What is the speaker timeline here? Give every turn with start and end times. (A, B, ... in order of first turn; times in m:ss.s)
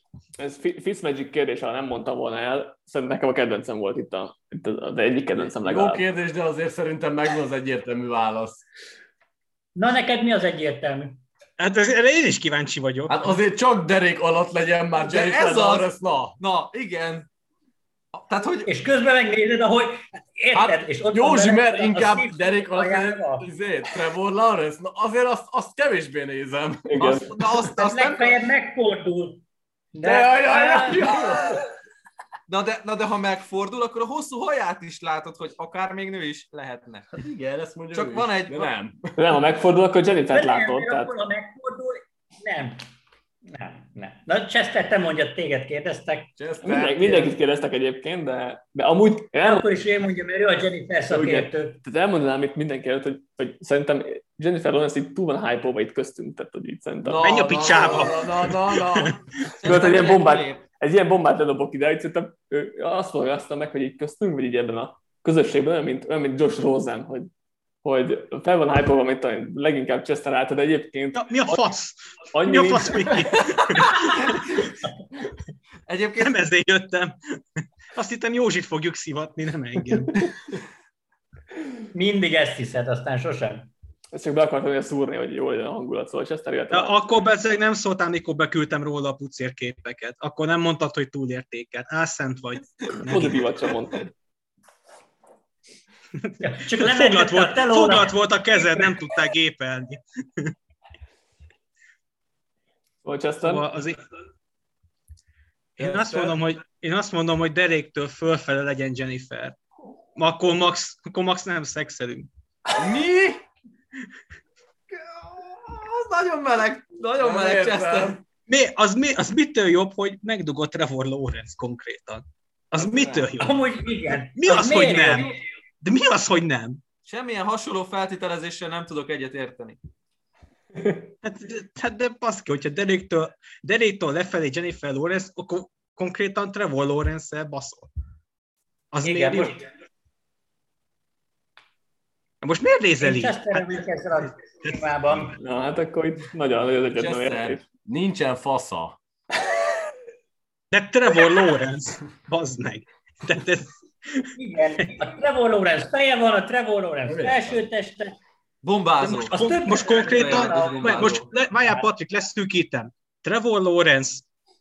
0:00.4-0:06.0 A
0:05.4-0:08.6 B
0:09.8-0:11.2 C
0:11.6-0:13.2 D
0:13.1-0:16.4 B
0:15.0-0:17.3 E
0:18.2-0:18.7 E
0:18.7-0:23.5 C
0:20.5-0:27.0 B
0:26.9-0:27.3 A
0:27.0-0:28.4 E
0:27.7-0:29.4 C
0:29.9-0:31.6 C
0:30.0-0:31.6 B
0:32.5-0:37.2 E
0:37.2-0:39.2 B
0:37.9-0:38.7 E
0:39.2-0:41.1 A
0:40.3-0:42.8 C
0:43.5-0:46.3 C
0:46.4-0:47.4 B
0:46.6-0:49.7 A
0:49.4-0:51.8 C
0:51.1-0:57.4 A
0:57.0-0:59.2 B
0:57.2-0:59.1 D
0:57.7-0:58.1 E
0:59.5-1:00.6 E
0:59.6-1:07.3 A
1:07.8-1:11.7 A
1:11.1-1:14.6 D
1:12.3-1:13.5 A
1:13.9-1:14.4 E
1:15.9-1:16.4 E
1:16.2-1:20.3 D
1:21.9-1:23.7 C
1:24.1-1:27.0 A
1:26.7-1:33.5 D
1:33.0-1:34.1 A
1:36.2-1:40.5 D
1:36.4-1:39.0 C
1:43.0-1:43.7 A
1:43.4-1:44.0 D
1:45.8-1:49.6 D
1:45.8-1:46.4 B
1:50.2-1:52.3 D
1:52.8-1:53.4 B
1:54.9-1:58.2 E
1:57.2-1:58.2 B
1:58.5-2:03.6 D
2:03.4-2:05.4 C
2:04.4-2:06.8 D
2:07.1-2:09.8 E
2:10.8-2:11.1 A
2:11.2-2:17.9 D
2:18.9-2:19.6 D
2:19.0-2:19.6 C
2:22.4-2:23.8 D
2:23.0-2:25.4 C
2:25.4-2:27.6 A
2:27.0-2:29.0 B
2:30.7-2:34.3 D
2:34.4-2:38.2 C
2:37.1-2:37.6 B
2:38.6-2:39.4 E
2:39.0-2:44.3 D
2:39.3-2:41.2 C
2:39.9-2:41.3 E
2:40.6-2:40.9 B